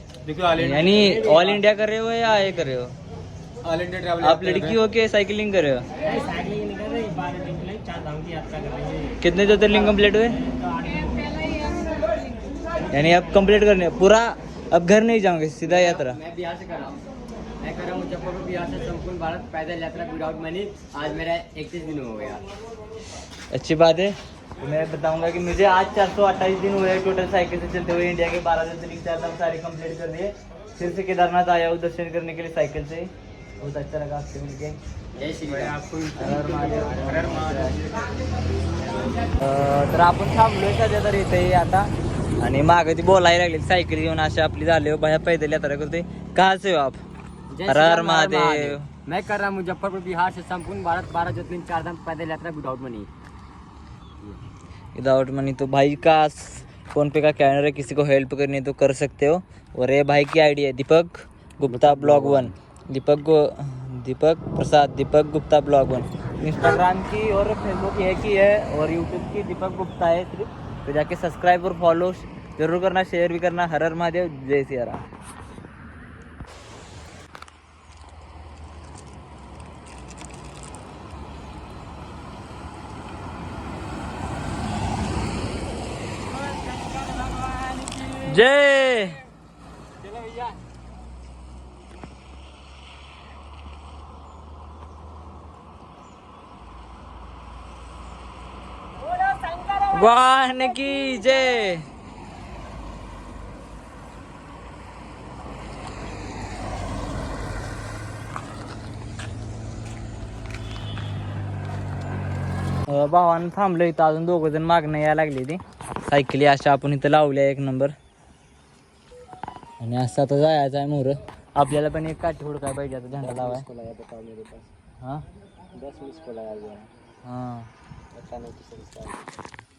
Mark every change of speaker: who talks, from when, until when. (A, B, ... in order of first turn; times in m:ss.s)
0:00.2-0:01.6 A
0:00.6-0:02.9 B
0:03.6-0:04.8 A
0:04.2-0:05.8 B
0:06.0-0:09.2 C
0:09.2-0:10.4 B
0:10.6-0:11.8 C
0:12.9-0:16.2 B
0:15.6-0:17.0 C
0:17.6-0:22.4 C
0:23.5-0:34.8 B
0:35.2-0:35.8 C
0:35.5-0:38.1 A
0:36.1-0:37.8 B
0:39.4-0:41.9 B
0:42.4-0:47.0 B
0:47.5-0:53.1 C
0:47.7-0:48.8 B
0:54.9-1:15.0 B
1:01.7-1:02.5 C
1:26.9-1:28.1 C
1:28.1-1:29.2 B
1:39.3-1:39.6 C
1:39.9-1:41.8 B
1:52.9-1:57.9 B
1:59.8-2:03.7 B
2:03.2-2:04.7 C
2:05.8-2:06.9 C
2:07.2-2:07.7 B
2:08.2-2:09.1 C